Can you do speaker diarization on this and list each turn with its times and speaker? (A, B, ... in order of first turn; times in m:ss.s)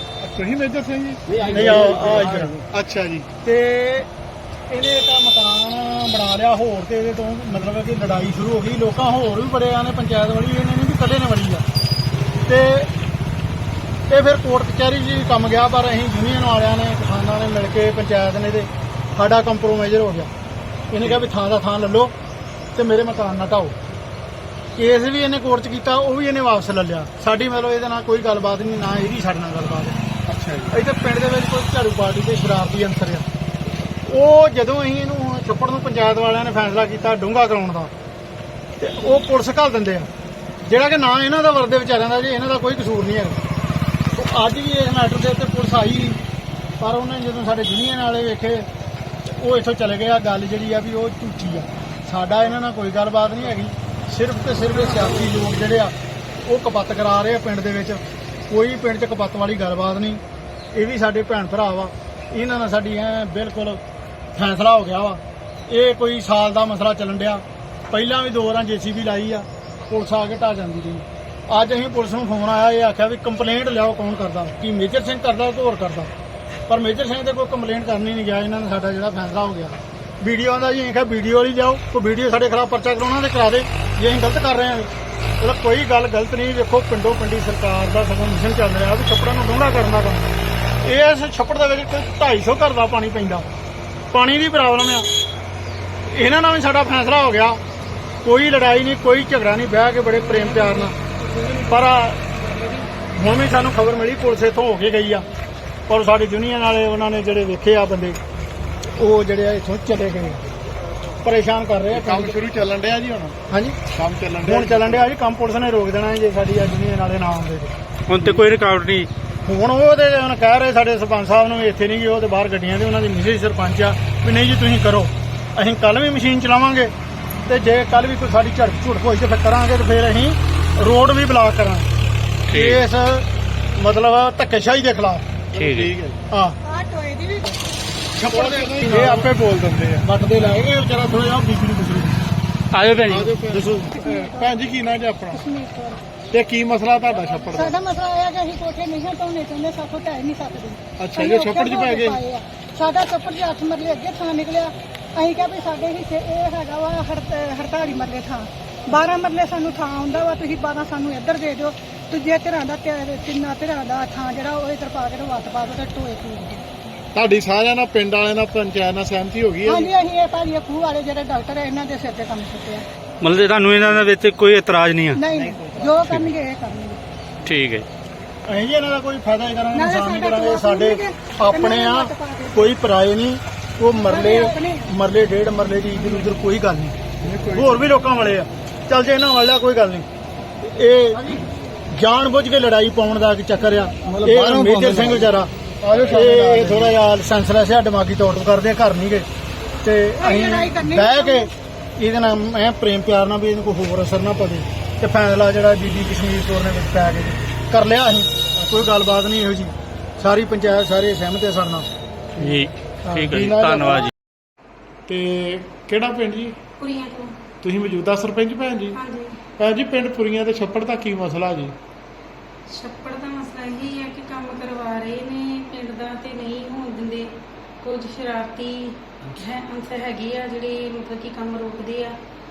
0:00.2-0:03.3 A
0:01.5-0:02.6 B
0:03.4-0:04.1 B
0:04.7-0:11.6 B
0:12.4-0:12.9 B
0:14.1-0:20.3 B
0:20.9-0:22.1 B
0:22.7-0:23.7 B
0:24.8-0:30.0 B
0:30.3-0:30.8 A
0:30.7-0:33.2 B
0:34.0-0:37.9 B
0:38.8-0:40.1 B
0:40.6-0:43.4 B
0:44.1-0:46.2 B
0:46.8-0:48.7 B
0:49.2-1:00.2 B
1:00.7-1:03.8 B
1:04.4-1:16.1 B
1:16.7-1:30.3 B
1:30.8-1:33.4 B
1:34.1-1:35.1 B
1:36.1-1:37.6 B
1:38.2-1:40.9 B
1:41.6-1:42.2 B
1:43.2-1:45.2 B
1:45.9-1:48.2 B
1:49.0-1:50.4 B
1:51.2-1:52.4 B
1:51.9-1:53.4 A
1:53.5-1:53.8 B
1:53.9-1:55.1 A
1:54.4-1:57.7 B
1:58.1-1:59.1 C
1:58.2-1:58.4 A
1:59.4-2:06.9 B
2:07.4-2:11.9 B
2:12.5-2:12.8 C
2:12.5-2:15.2 B
2:15.5-2:16.2 A
2:15.5-2:15.9 C
2:16.3-2:16.6 B
2:16.6-2:17.6 D
2:18.2-2:19.5 B
2:18.3-2:20.0 A
2:20.0-2:22.2 B
2:22.7-2:23.3 C
2:23.1-2:25.4 A
2:23.5-2:24.0 B
2:24.0-2:24.5 D
2:25.3-2:26.0 D
2:26.3-2:27.8 A
2:27.5-2:46.6 D
2:31.0-2:32.2 A
2:47.1-2:49.9 A
2:49.6-2:52.8 D
2:53.2-2:55.2 C
2:55.1-2:57.0 D
2:56.0-2:56.3 C
2:57.4-2:57.9 C
2:58.5-3:06.9 B
2:59.7-3:02.7 D
3:03.9-3:04.9 D
3:07.2-3:07.8 A
3:07.5-3:10.0 B
3:10.6-3:11.3 B
3:11.9-3:19.3 B
3:14.0-3:16.9 A
3:19.8-3:31.9 B
3:20.2-3:21.5 D
3:32.4-3:34.1 C
3:33.3-3:34.1 A
3:35.1-3:36.6 A
3:36.8-3:37.3 E
3:37.6-3:39.0 A
3:38.9-3:39.4 E
3:39.6-3:41.7 A
3:42.7-3:47.3 E
3:47.8-3:52.1 E